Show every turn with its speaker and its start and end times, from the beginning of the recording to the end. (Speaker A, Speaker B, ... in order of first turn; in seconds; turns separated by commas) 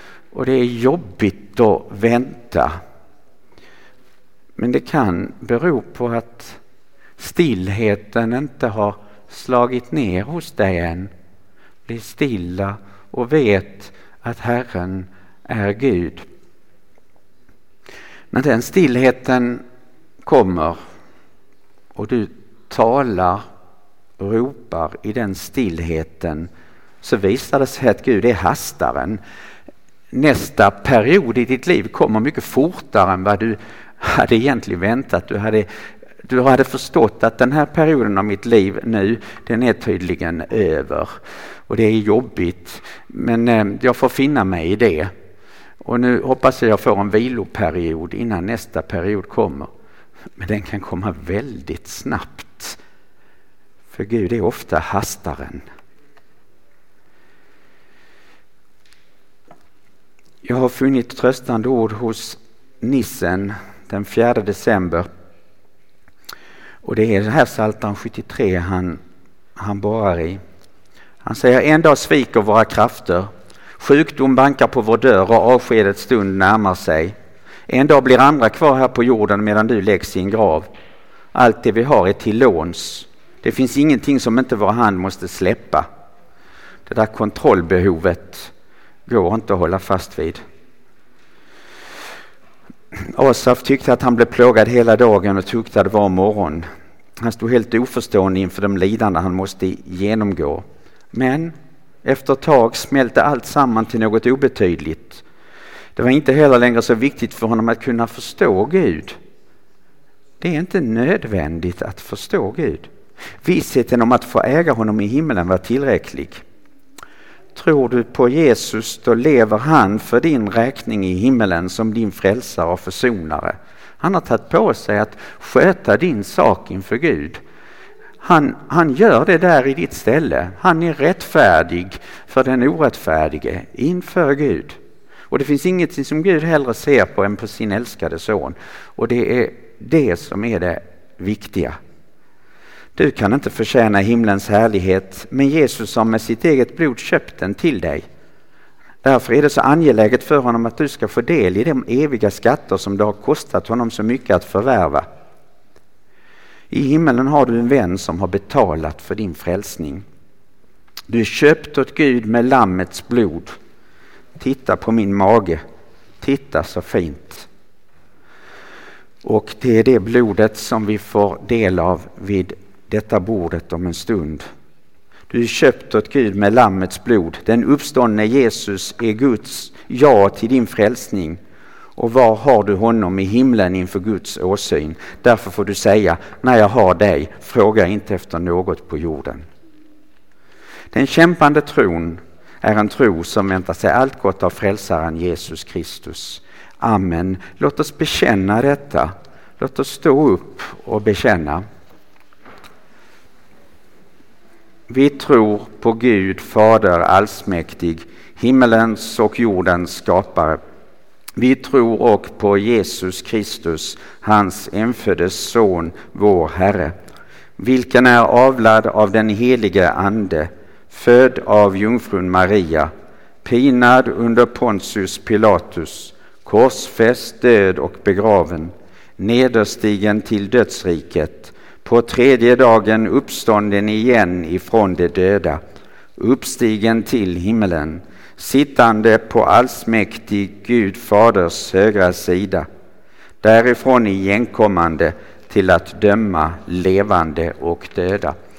Speaker A: 0.3-2.8, Speaker A: 4.6-6.6, Speaker A: 7.2-11.1, Speaker A: 11.9-16.2, Speaker A: 18.3-19.6, Speaker A: 20.2-20.8, Speaker A: 21.9-23.4, Speaker A: 24.2-26.5, Speaker A: 27.0-29.2, Speaker A: 30.1-35.7, Speaker A: 36.2-41.2, Speaker A: 41.7-45.1, Speaker A: 45.8-49.7, Speaker A: 50.4-52.8, Speaker A: 53.9-55.6, Speaker A: 60.4-65.1, Speaker A: 66.8-69.0, Speaker A: 69.6-70.4, Speaker A: 71.2-77.1, Speaker A: 77.7-80.7, Speaker A: 81.3-85.9, Speaker A: 86.9-88.5, Speaker A: 89.1-90.4, Speaker A: 93.0-96.7, Speaker A: 97.2-105.2, Speaker A: 106.0-109.2, Speaker A: 110.4-112.9, Speaker A: 113.4-116.4, Speaker A: 117.5-127.4, Speaker A: 128.2-134.8, Speaker A: 135.3-141.8, Speaker A: 142.9-148.1, Speaker A: 149.0-155.1, Speaker A: 156.7-160.0, Speaker A: 161.1-163.6, Speaker A: 164.4-165.6, Speaker A: 166.2-167.5, Speaker A: 169.2-174.5, Speaker A: 175.3-181.4, Speaker A: 182.0-189.4, Speaker A: 190.9-201.6, Speaker A: 204.9-210.6, Speaker A: 211.4-216.9, Speaker A: 217.6-222.9, Speaker A: 223.4-235.6, Speaker A: 236.2-242.7, Speaker A: 243.4-248.3